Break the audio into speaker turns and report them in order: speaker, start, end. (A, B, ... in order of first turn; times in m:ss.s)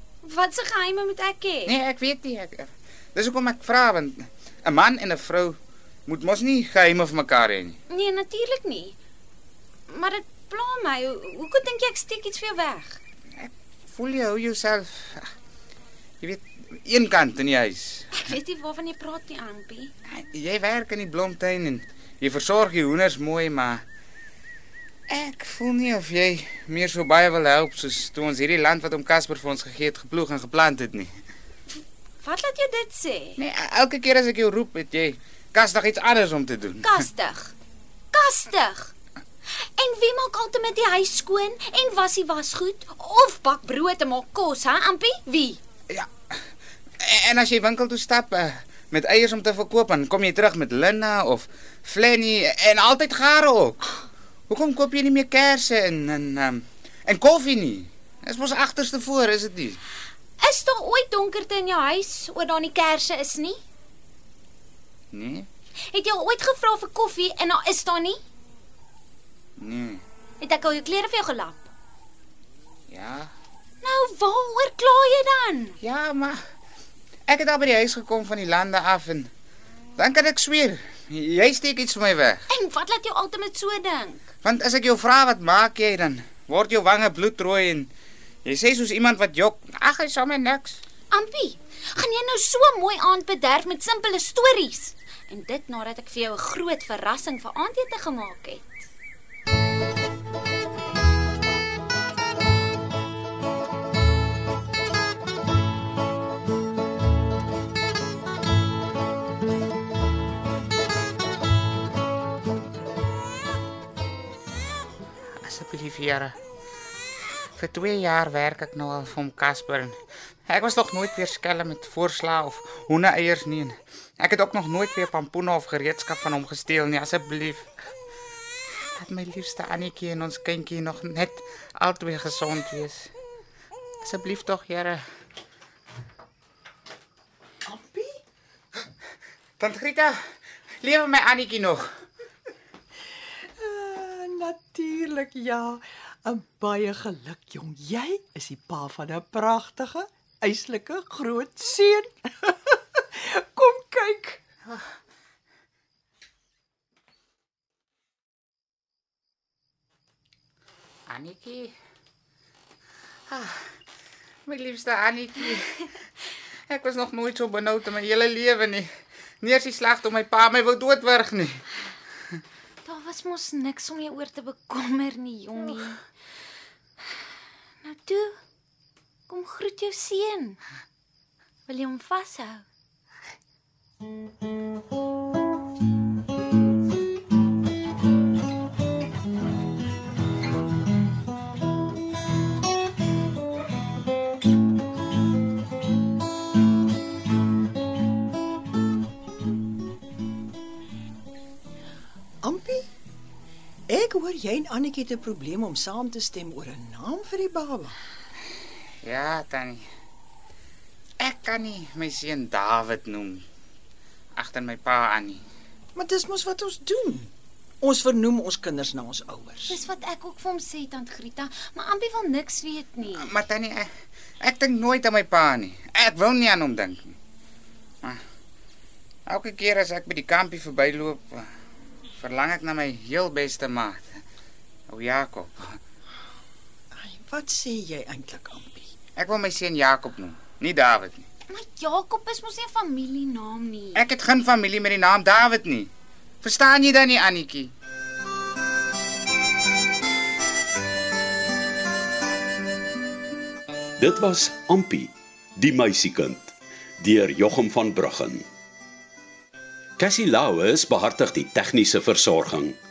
0:00.2-0:01.7 A
0:01.6-0:07.8 B
0:07.9-0:09.0 A
0:09.9-0:13.0 A
0:13.4-0:15.3 B
0:16.2-0:18.1 B
0:18.2-0:19.9 A
0:20.1-0:23.8 B
0:25.1-0:31.1 B
0:32.2-0:33.4 A
0:33.4-0:36.9 B
0:36.8-0:37.5 A
0:38.1-0:38.9 A
0:39.8-0:45.6 A
0:45.9-0:46.4 B
0:47.0-0:54.0 B
0:54.5-0:59.8 B
1:00.4-1:03.6 A
1:05.1-1:05.5 B
1:05.9-1:08.2 A
1:09.6-1:10.0 B
1:10.4-1:11.6 A
1:12.9-1:13.3 B
1:13.8-1:15.8 A
1:15.8-1:16.4 B
1:17.3-1:19.3 B
1:20.0-1:22.4 B
1:22.5-1:24.2 A
1:24.4-1:27.9 B
1:28.4-1:30.8 B
1:31.1-1:38.7 A
1:55.4-1:56.3 B
1:57.6-2:07.7 B
2:08.9-2:13.1 B
2:14.0-2:15.0 B
2:17.7-2:18.1 C
2:19.6-2:20.2 B
2:20.8-2:21.8 B
2:23.6-2:32.1 C
2:33.3-2:34.4 C
2:41.1-2:41.7 B
2:43.3-2:43.7 B
2:44.4-2:45.9 B
2:46.7-2:48.9 B
2:49.4-2:51.6 B
2:52.8-2:56.0 A
2:57.8-2:58.4 A
2:59.3-3:00.6 A
3:01.7-3:02.6 A
3:22.4-3:22.8 C
3:23.9-3:27.9 C
3:29.0-3:29.8 B
3:31.2-3:33.4 B
3:34.4-3:35.4 B
3:36.0-3:37.2 C
3:37.8-3:39.7 C
3:39.7-3:43.3 A
3:43.2-3:43.9 B
3:44.4-3:47.1 B
3:49.3-3:51.5 B
3:52.2-3:54.2 B
3:54.9-3:55.8 B
3:57.0-3:58.6 C
3:59.2-4:01.3 B
4:01.5-4:04.0 A
4:03.9-4:05.9 B
4:06.4-4:07.7 B
4:14.0-4:18.4 D
4:20.0-4:22.8 D